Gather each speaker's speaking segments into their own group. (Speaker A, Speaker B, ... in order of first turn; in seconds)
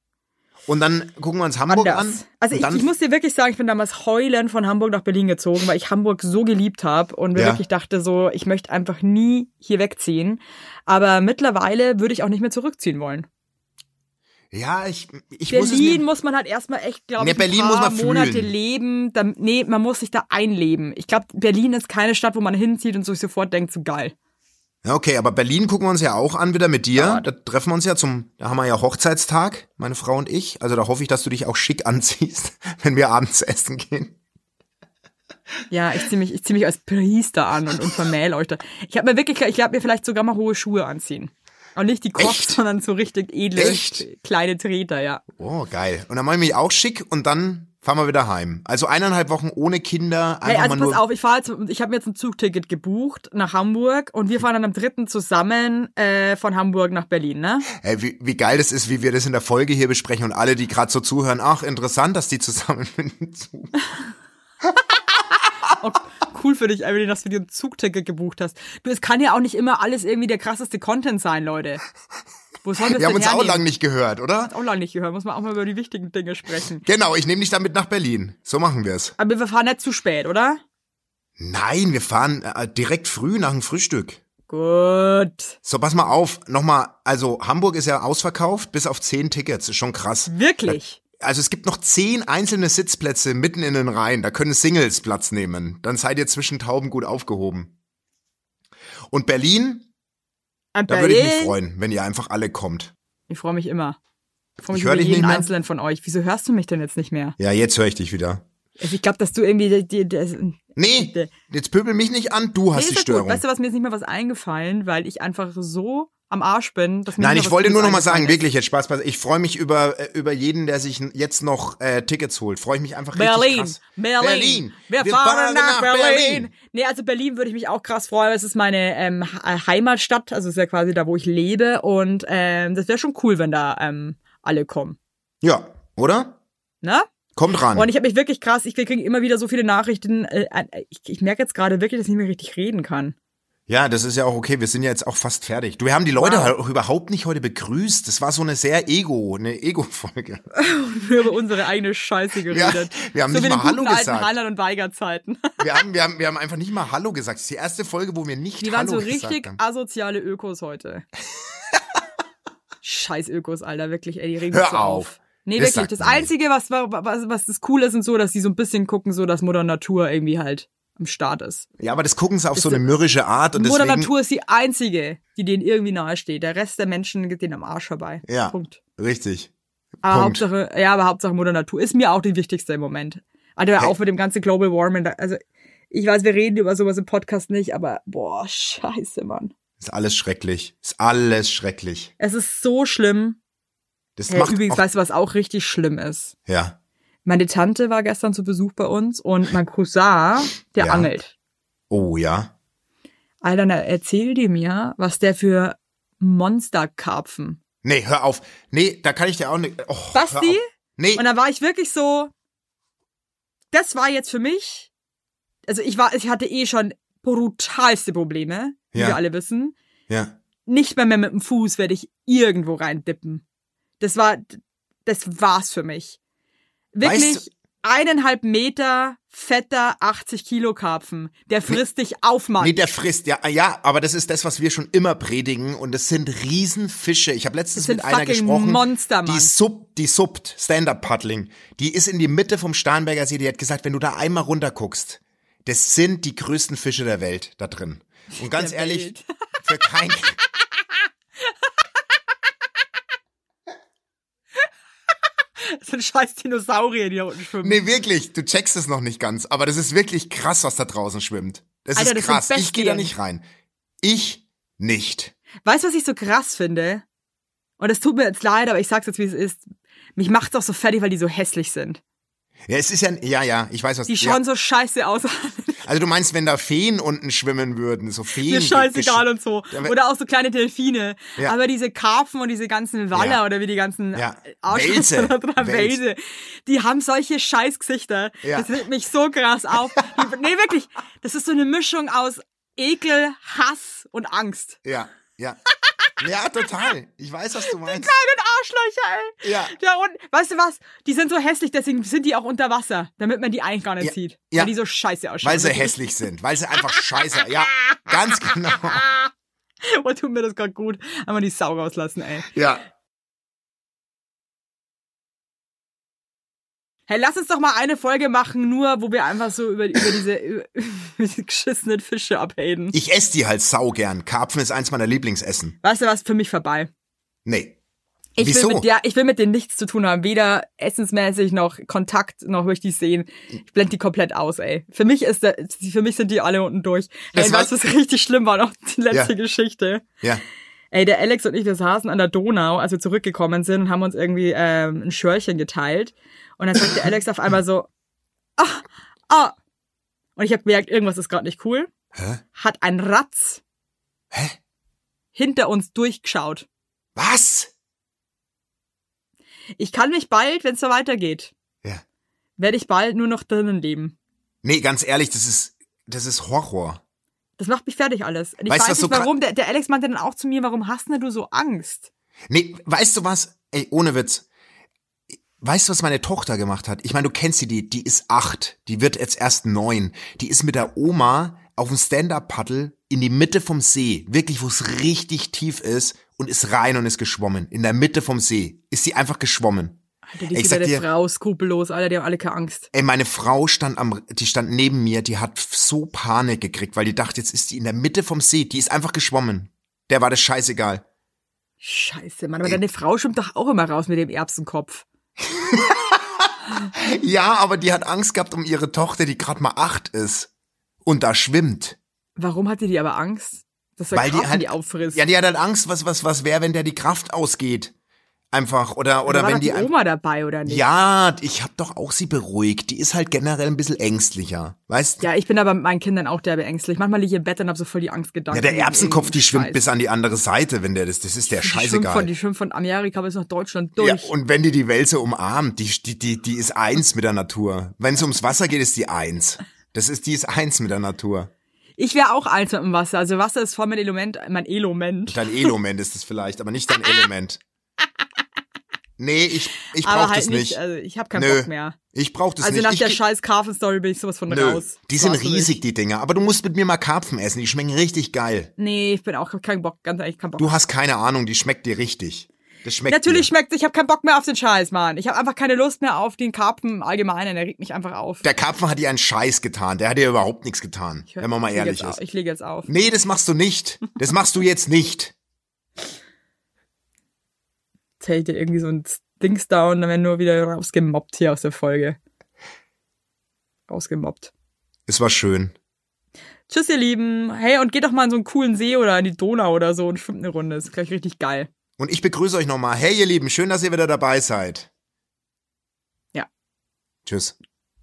Speaker A: 0.7-2.8, 7.3-7.6, 14.5-16.0, 17.2-18.5, 24.8-34.1, 42.2-42.6, 43.5-44.0, 45.3-51.0, 57.7-63.7, 72.9-74.5, 76.8-79.1, 81.4-84.2, 85.6-97.7, 99.1-99.9, 100.9-102.9, 104.7-105.5, 107.4-108.4, 110.8-113.4, 117.2-126.5, 135.4-136.4, 137.3-137.9, 143.7-150.4, 152.5-154.3, 155.6-159.6, 164.5-166.3, 171.8-174.1, 178.3-179.5, 180.0-180.4, 189.8-192.1, 194.2-194.8, 196.5-196.7, 200.8-201.1, 201.9-202.5, 207.8-211.2, 218.9-219.2, 220.1-220.3, 227.0-227.4, 232.6-249.1, 249.6-250.4, 257.6-263.4, 264.0-265.3, 272.7-274.4, 275.8-279.9, 283.1-283.4, 284.1-286.0, 288.4-288.7, 294.8-295.6, 296.2-298.1, 299.4-299.7, 304.0-304.7, 305.4-309.1, 312.5-312.8, 322.9-325.8, 327.4-327.7, 328.4-328.9, 337.3-337.7, 352.1-352.4, 354.3-354.6, 357.1-357.7, 364.6-367.0, 368.7-369.3, 372.5-374.4, 375.6-390.0, 390.5-391.0, 392.9-401.0, 405.5-410.5, 411.0-412.0, 414.1-417.9, 418.5-419.9, 420.6-425.2, 428.5-432.3, 434.0-441.5, 445.3-447.6, 449.2-450.8, 451.4-453.2, 454.5-458.7, 460.6-463.5, 468.4-472.2, 472.9-475.3, 485.1-485.7, 492.0-494.9, 497.2-497.6
Speaker B: 1.7-13.3, 15.5-24.1, 26.9-27.2, 35.7-45.2, 50.4-57.7, 65.7-71.8, 72.6-73.6, 74.4-76.8, 79.2-80.6, 84.5-85.5, 90.3-91.0, 100.7-101.6, 103.3-104.0, 104.6-107.3, 108.8-111.3, 112.7-118.4, 123.1-135.0, 136.8-137.1, 137.7-143.1, 146.2-146.5, 150.5-155.6, 158.6-161.1, 162.8-171.7, 172.5-172.8, 173.5-178.8, 180.0-189.5, 192.2-193.4, 194.3-196.3, 197.2-201.3, 203.4-207.6, 210.1-212.3, 213.7-214.9, 215.7-219.7, 220.7-223.4, 224.0-226.2, 226.9-232.8, 237.7-239.5, 248.4-249.2, 255.6-257.9, 261.9-263.1, 265.6-267.0, 267.8-269.6, 270.1-272.0, 274.1-275.8, 278.4-294.8, 297.7-306.1, 309.8-312.5, 317.1-323.0, 325.8-326.9, 328.4-340.1, 340.9-347.9, 348.6-349.5, 350.4-351.9, 352.5-353.6, 355.3-356.6, 359.8-361.5, 362.6-364.1, 367.6-372.1, 390.3-392.9, 401.8-405.1, 412.4-415.2, 419.2-420.8, 425.2-429.8, 431.5-434.3, 442.0-445.7, 450.0-452.0, 452.6-455.7, 458.8-460.7, 463.1-468.4, 471.3-472.9, 478.2-482.2, 483.9-484.5, 486.7-491.7